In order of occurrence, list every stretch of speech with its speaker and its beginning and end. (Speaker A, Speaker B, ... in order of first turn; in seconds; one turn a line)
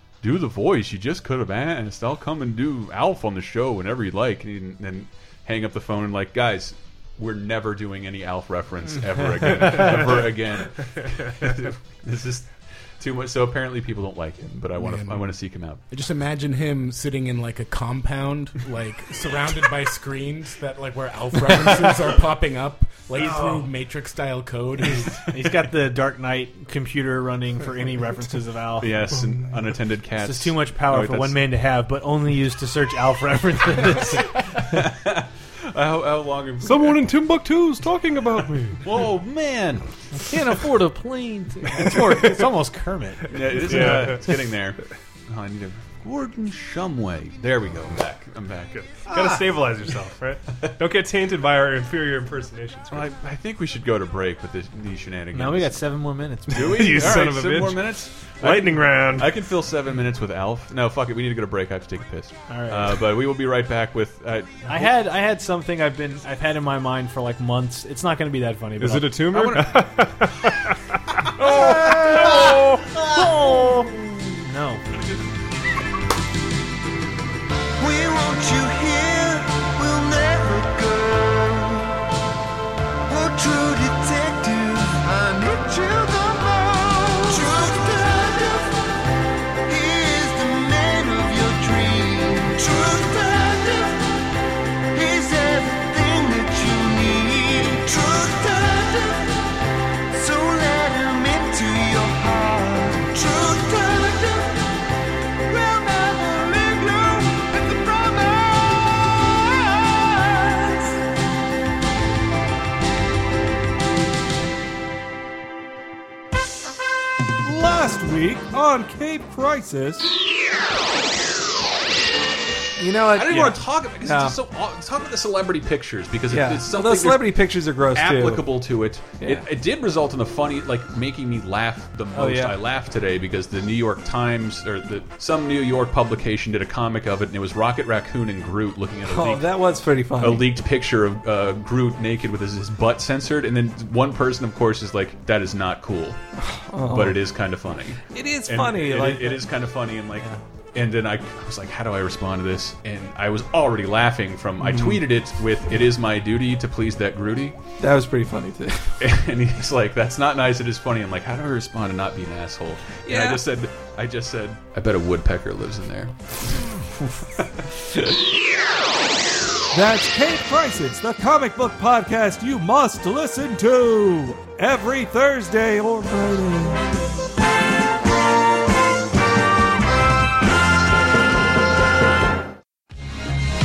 Speaker A: 0.2-15.8
Speaker B: 14.8-15.3
Speaker B: 15.9-25.5
Speaker C: 25.3-29.1
Speaker A: 28.8-31.4
Speaker C: 30.2-34.8
Speaker A: 34.6-37.1
Speaker D: 36.6-38.9
Speaker A: 38.8-39.9
Speaker C: 40.2-43.4
Speaker A: 43.3-49.6
Speaker D: 43.6-44.4
Speaker D: 48.7-53.1
Speaker A: 52.9-55.8
Speaker C: 55.3-57.1
Speaker A: 56.5-64.9
Speaker D: 56.5-59.3
Speaker C: 62.5-63.0
Speaker C: 64.6-69.2
Speaker D: 68.8-70.8
Speaker A: 69.3-69.8
Speaker D: 71.4-72.0
Speaker C: 71.4-74.8
Speaker E: 71.6-72.8
Speaker E: 77.8-82.0
Speaker E: 83.1-88.7
Speaker E: 89.7-94.2
Speaker E: 94.9-99.5
Speaker E: 100.1-104.8
Speaker E: 105.4-111.0
Speaker F: 117.4-120.1
Speaker C: 122.8-124.3
Speaker A: 123.1-139.6
Speaker F: 126.3-128.6
Speaker F: 132.1-132.5
Speaker F: 139.0-140.5
Speaker A: 140.2-146.2
Speaker F: 146.4-147.2
Speaker A: 146.8-157.6
Speaker F: 148.0-149.4
Speaker F: 157.8-159.0
Speaker A: 159.0-166.6
Speaker F: 163.1-163.4
Speaker A: 167.4-168.2
Speaker F: 169.7-176.8